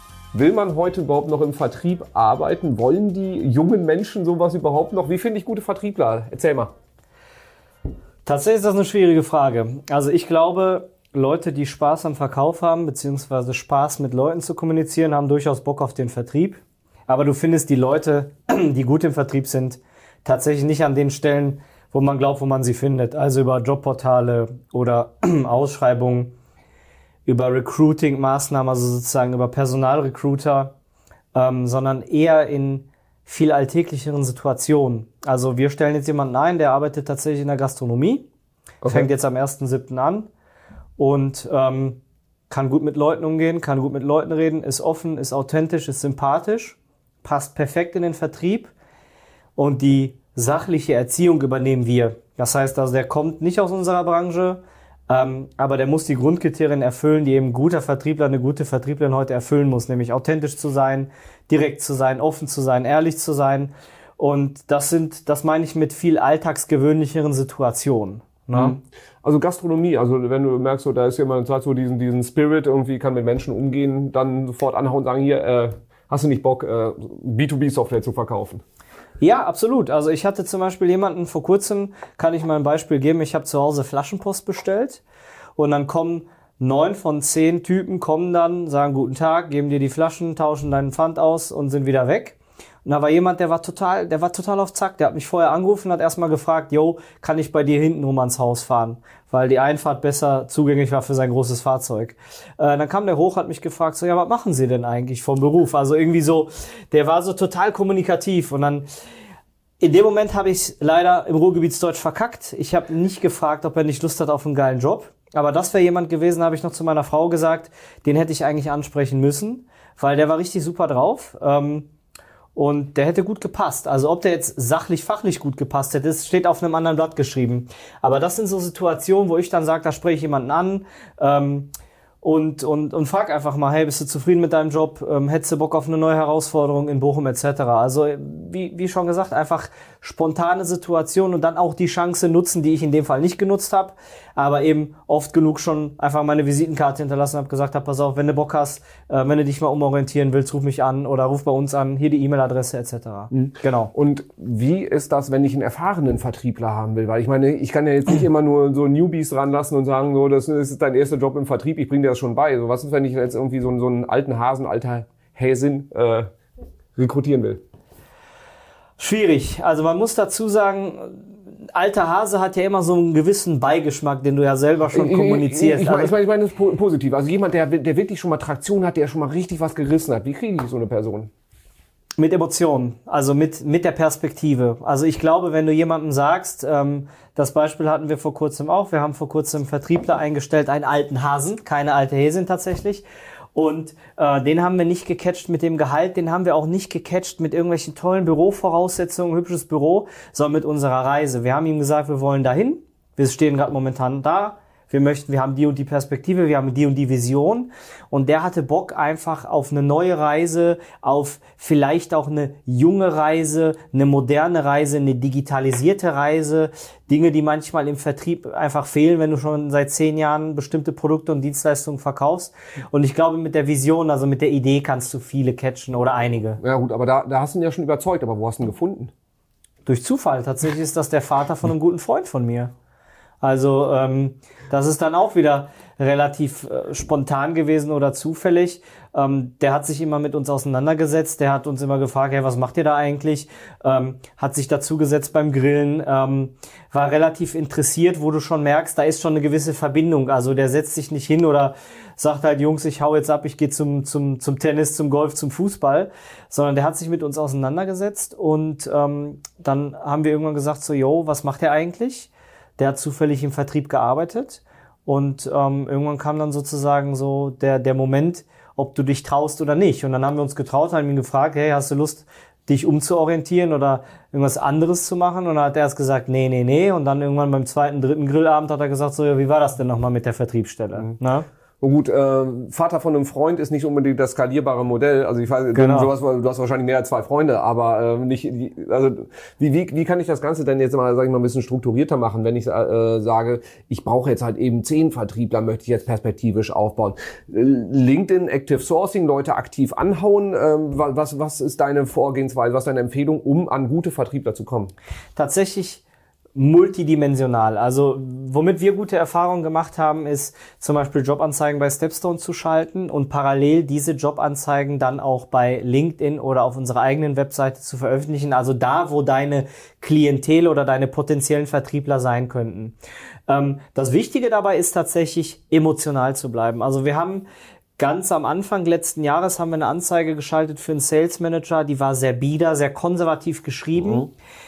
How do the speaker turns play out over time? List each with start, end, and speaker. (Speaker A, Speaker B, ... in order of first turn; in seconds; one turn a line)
Speaker A: 0.3-6.7
Speaker B: 8.2-26.3
Speaker B: 27.2-30.7
Speaker B: 31.3-38.3
Speaker A: 38.8-39.1
Speaker B: 38.8-40.3
Speaker B: 41.0-48.7
Speaker B: 49.5-68.8
Speaker A: 68.5-78.6
Speaker B: 79.2-85.0
Speaker B: 85.6-108.9
Speaker B: 109.8-121.9
Speaker B: 122.5-131.7
Speaker B: 132.2-153.9
Speaker A: 153.3-166.3
Speaker A: 166.9-167.6
Speaker B: 169.0-176.1
Speaker A: 174.9-181.3
Speaker B: 182.2-226.6
Speaker A: 226.6-229.1
Speaker B: 229.8-232.7
Speaker B: 233.4-281.5
Speaker A: 281.8-304.9
Speaker B: 285.7-286.1
Speaker B: 305.4-306.0
Speaker B: 306.5-322.9
Speaker B: 323.5-327.4
Speaker B: 328.0-334.3
Speaker A: 334.0-334.2